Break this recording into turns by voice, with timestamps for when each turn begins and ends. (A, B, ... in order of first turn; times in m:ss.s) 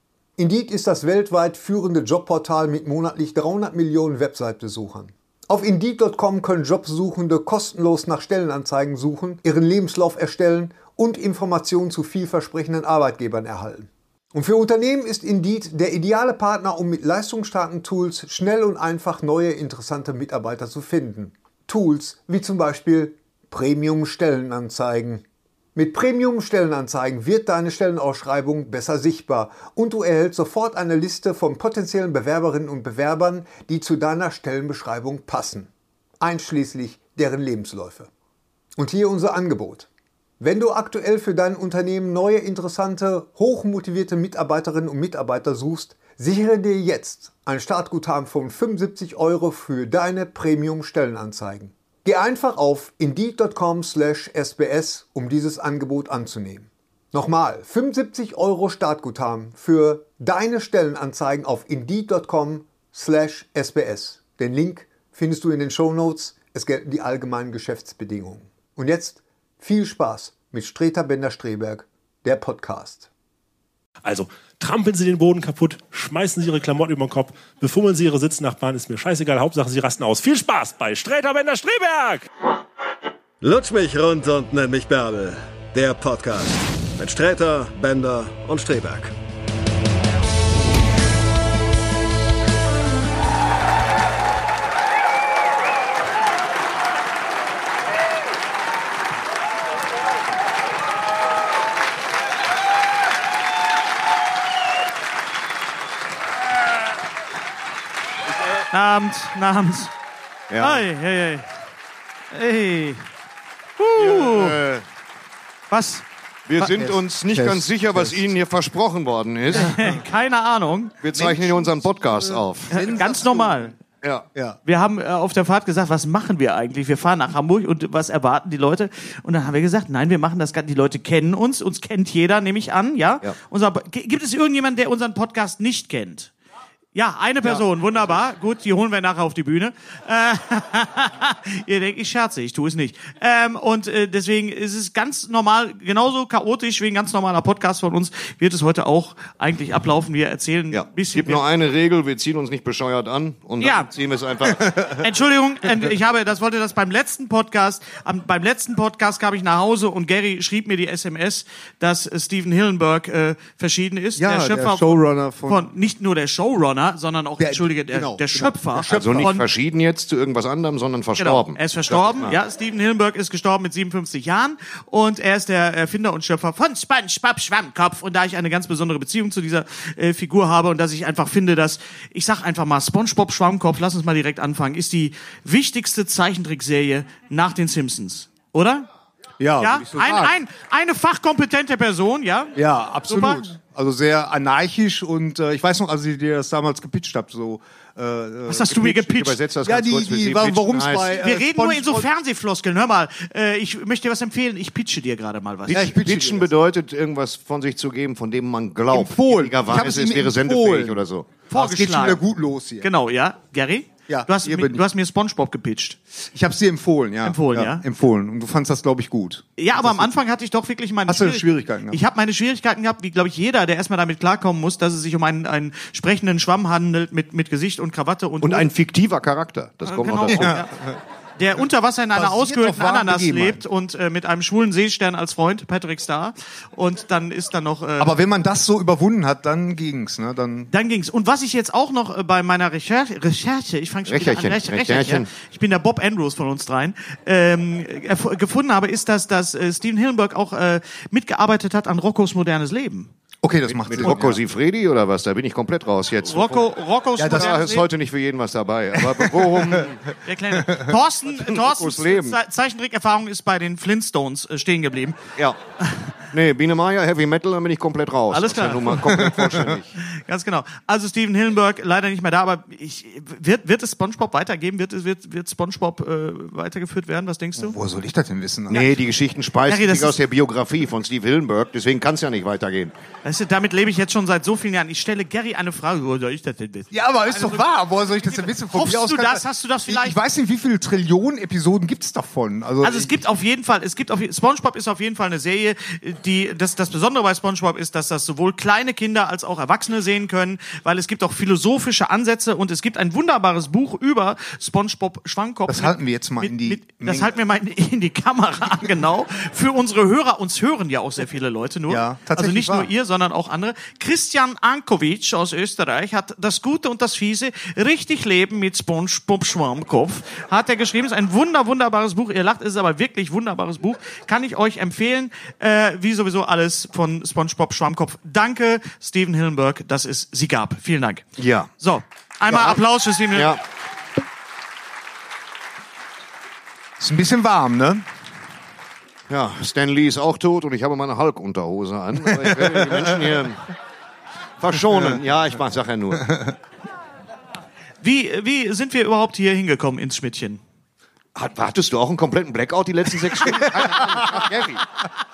0:00.4-0:25.2 A
0:25.7-0:38.1 A
0:38.8-1:13.1 A
1:14.0-1:22.3 B
1:23.4-1:29.1 C
1:48.6-1:49.9 D
1:50.5-1:50.8 E
1:50.6-1:51.5 D
1:52.3-1:53.0 D
1:53.8-1:54.6 D
1:54.0-1:54.8 E
1:55.7-1:56.0 D
1:56.5-1:59.8 E
1:56.6-1:58.2 F
1:59.5-2:01.0 D
2:01.0-2:02.9 E
2:01.1-2:03.7 F
2:02.7-2:03.7 D
2:04.0-2:04.3 E
2:04.6-2:16.3 D
2:16.9-2:31.4 D
2:17.4-2:18.1 E
2:30.7-2:35.0 E
2:33.6-2:33.9 D
2:34.4-2:34.9 F
2:35.0-2:49.4 D
2:44.2-2:45.7 F
2:47.4-2:49.4 F
2:48.9-2:52.4 E
2:51.2-3:08.9 D
3:09.4-3:10.3 F
3:09.6-3:13.5 D
3:12.5-3:18.8 F
3:18.5-3:19.4 D
3:18.6-3:21.1 E
3:19.6-3:22.1 F
3:21.1-3:26.0 D
3:25.7-3:31.3 E
3:25.7-3:26.5 F
3:28.9-3:32.9 F
3:31.5-3:32.2 D
3:32.8-3:36.0 D
3:34.1-3:34.8 F
3:36.3-3:40.2 F
3:37.2-3:37.8 D
3:39.6-3:48.7 D
3:41.1-3:42.0 F
3:48.4-3:50.6 E
3:49.8-3:50.7 D
3:50.3-3:50.9 F
3:51.4-3:58.2 D
3:52.1-3:53.6 F
3:58.0-4:00.7 F
4:00.7-4:13.1 D
4:04.1-4:05.3 E
4:13.4-4:14.4 F
4:13.7-4:16.7 E
4:16.2-4:17.9 D
4:17.2-4:17.7 F
4:17.2-4:20.1 E
4:19.0-4:19.9 F
4:20.2-4:25.3 D
4:21.3-4:22.4 E
4:25.8-4:26.1 D
4:26.3-4:30.0 E
4:28.3-4:29.1 D
4:29.0-4:29.8 F
4:30.0-4:37.8 D
4:37.6-4:39.0 F
4:38.7-4:42.9 E
4:39.7-4:40.2 D
4:43.2-4:47.6 D
4:46.9-4:53.2 F
4:48.4-4:50.2 D
4:52.8-5:33.6 D
5:05.7-5:07.3 F
5:11.9-5:12.9 F
5:31.4-5:31.7 E
5:32.5-5:33.6 E
5:37.0-5:38.0 F
5:39.3-5:43.7 E
5:42.2-5:43.5 F
5:44.6-5:46.3 E
5:44.8-5:45.2 F
5:46.2-5:46.5 F
5:48.0-5:50.6 D
5:51.3-5:54.9 E
5:53.4-5:54.4 F